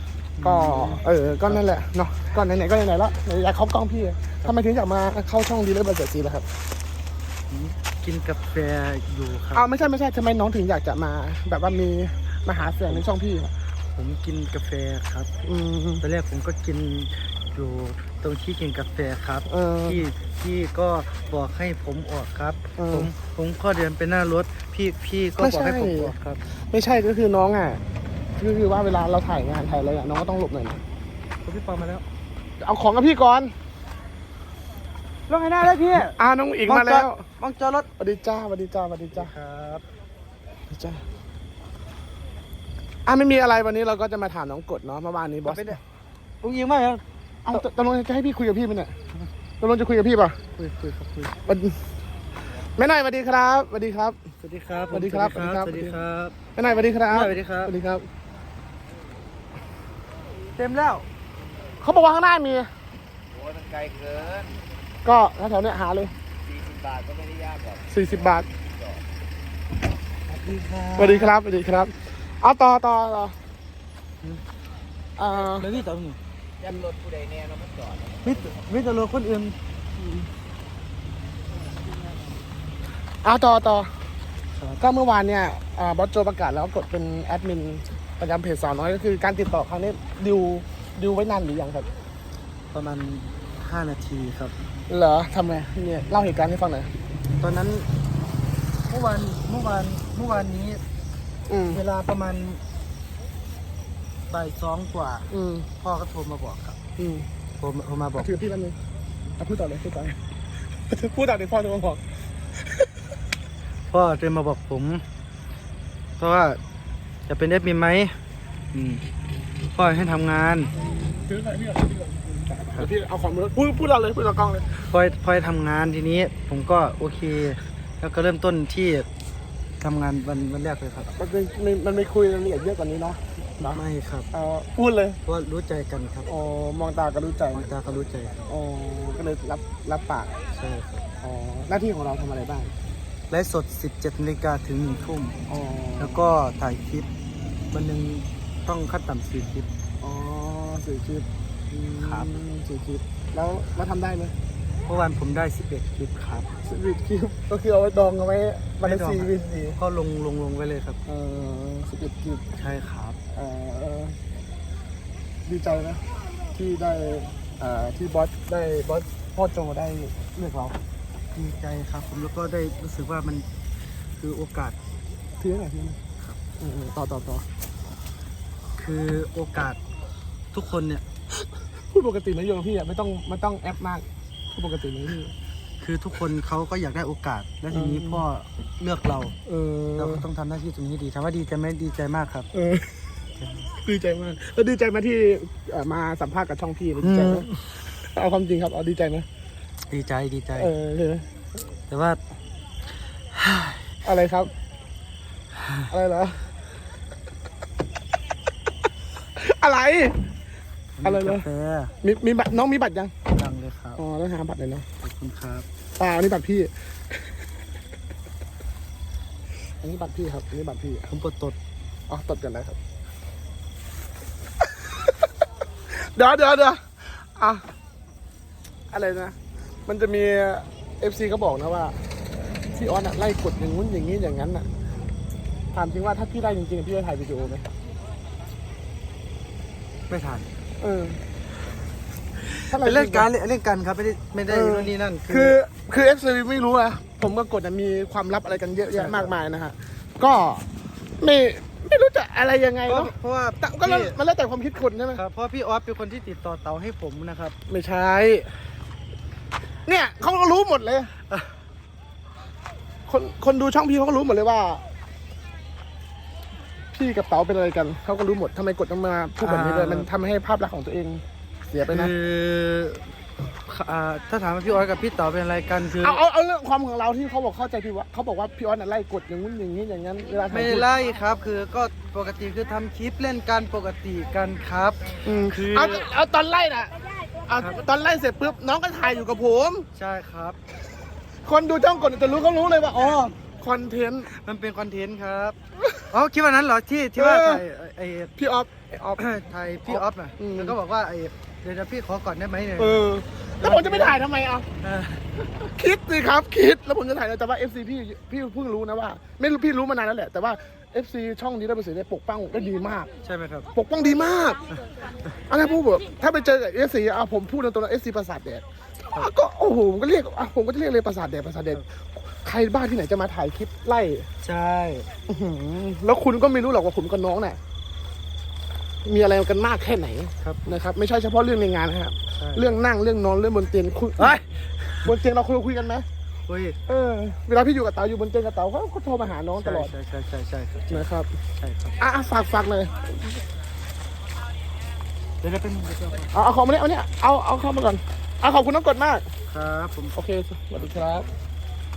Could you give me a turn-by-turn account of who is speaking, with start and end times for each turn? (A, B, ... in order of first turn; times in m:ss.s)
0:00.4-0:01.7 A
0:00.4-0:06.5 B
0:07.5-0:09.8 A
0:09.5-0:13.5 B
0:13.9-0:15.3 A
0:15.4-0:16.0 B
0:16.0-0:26.4 A
0:19.5-0:20.0 B
0:22.8-0:23.1 B
0:25.4-0:27.8 B
0:28.4-0:30.8 B
0:31.4-0:32.0 A
0:32.6-0:33.5 B
0:35.3-0:37.9 A
0:36.0-0:37.2 B
0:38.0-0:39.3 B
0:39.1-0:39.8 A
0:40.7-0:41.0 B
0:43.0-0:45.8 B
0:45.4-0:45.8 A
0:46.4-0:47.6 A
0:47.5-0:49.0 B
0:49.6-0:50.4 B
0:50.6-0:51.4 A
0:51.4-0:51.8 B
0:52.8-0:54.2 B
0:54.4-0:56.4 A
0:54.9-0:56.0 B
0:56.6-0:58.1 B
0:57.1-0:57.7 A
1:00.6-1:01.0 A
1:01.8-1:02.7 B
1:03.5-1:04.4 C
1:05.0-1:06.1 B
1:06.6-1:07.7 C
1:07.9-1:08.5 B
1:10.3-1:11.4 A
1:11.0-1:13.4 B
1:15.2-1:15.7 B
1:15.3-1:16.2 A
1:16.7-1:18.0 C
1:18.2-1:19.6 A
1:20.0-1:20.2 B
1:23.2-1:23.9 B
1:24.8-1:31.9 B
1:32.7-1:34.6 A
1:34.9-1:36.9 B
1:37.4-1:37.9 A
1:38.8-1:40.8 A
1:41.5-1:41.8 B
1:41.7-1:42.6 A
1:44.3-1:46.8 A
1:45.3-1:45.7 B
1:47.0-1:47.3 B
1:47.6-1:48.3 A
1:48.2-1:48.8 B
1:49.4-1:50.2 B
1:50.9-1:52.0 B
1:53.9-1:55.0 A
1:56.2-1:56.6 A
1:57.3-1:58.2 A
1:58.7-1:59.0 A
1:59.7-2:00.7 A
2:00.8-2:04.7 B
2:04.8-2:09.1 A
2:09.8-2:11.1 A
2:11.2-2:13.8 B
2:13.7-2:14.3 A
2:14.3-2:15.2 B
2:15.2-2:16.3 A
2:16.3-2:17.7 B
2:17.5-2:18.5 A
2:18.5-2:20.4 B
2:20.5-2:21.0 A
2:21.2-2:22.7 B
2:23.3-2:25.4 A
2:25.5-2:26.2 B
2:26.0-2:27.1 A
2:27.7-2:29.7 A
2:30.0-2:34.3 B
2:32.0-2:32.3 A
2:34.8-2:36.5 A
2:36.6-2:39.8 B
2:38.8-2:41.0 A
2:41.1-2:42.5 B
2:42.6-2:43.2 A
2:43.3-2:44.2 B
2:45.4-2:50.8 B
2:51.4-2:53.4 A
2:54.2-2:54.8 A
2:55.4-2:56.0 B
2:56.6-2:57.4 B
2:58.8-2:59.8 A
3:00.5-3:01.0 A
3:01.9-3:05.3 B
3:05.8-3:09.4 A
3:07.7-3:08.2 B
3:09.4-3:10.2 B
3:10.0-3:12.5 A
3:12.5-3:13.0 B
3:13.7-3:19.3 B
3:17.0-3:17.8 A
3:19.9-3:20.7 A
3:20.6-3:21.3 B
3:21.9-3:22.2 A
3:23.3-3:23.9 A
3:24.0-3:24.5 B
3:25.9-3:26.5 B
3:29.4-3:30.2 B
3:31.0-3:31.9 A
3:31.0-3:31.4 B
3:32.0-3:33.1 B
3:33.3-3:34.0 A
3:34.0-3:34.9 B
3:35.0-3:35.6 A
3:36.0-3:36.7 B
3:39.8-3:41.1 B
3:41.1-3:41.6 A
3:42.1-3:42.8 B
3:44.8-3:45.1 B
3:45.9-3:47.6 B
3:48.9-3:54.7 B
3:55.7-3:57.7 B
4:00.1-4:00.5 A
4:00.8-4:01.2 B
4:02.4-4:05.6 A
4:02.7-4:03.3 B
4:04.5-4:10.6 B
4:08.9-4:09.3 A
4:11.2-4:15.2 B
4:12.9-4:14.2 A
4:15.1-4:17.6 A
4:17.7-4:18.5 B
4:19.8-4:21.1 B
4:21.3-4:21.5 A
4:23.1-4:24.8 B
4:26.9-4:32.1 B
4:29.4-4:30.1 A
4:31.8-4:33.1 A
4:33.6-4:36.2 A
4:35.8-4:40.9 B
4:40.5-4:46.1 A
4:45.2-4:49.9 B
4:47.5-4:47.8 A
4:49.9-4:50.6 A
4:51.4-4:54.3 B
4:54.3-4:55.6 A
4:56.1-4:58.3 A
4:57.2-4:57.6 B
4:58.4-4:59.2 B
4:59.2-5:03.0 A
4:59.8-5:00.8 B
5:02.8-5:04.7 B
5:03.6-5:04.2 A
5:04.8-5:05.3 A
5:05.6-5:13.1 B
5:13.2-5:13.7 A
5:13.7-5:14.6 B
5:15.5-5:18.6 B
5:19.1-5:24.3 B
5:24.4-5:25.1 A
5:25.3-5:27.6 B
5:29.0-5:34.4 B
5:30.4-5:30.7 A
5:32.4-5:32.7 A
5:34.2-5:35.1 A
5:35.0-5:36.0 B
5:36.5-5:36.8 A
5:36.9-5:39.9 B
5:39.6-5:41.1 A
5:40.9-5:41.3 B
5:41.6-5:42.0 A
5:42.0-5:43.2 B
5:45.4-5:46.4 A
5:46.3-5:49.3 B
5:49.5-5:50.2 A
5:50.1-5:51.3 B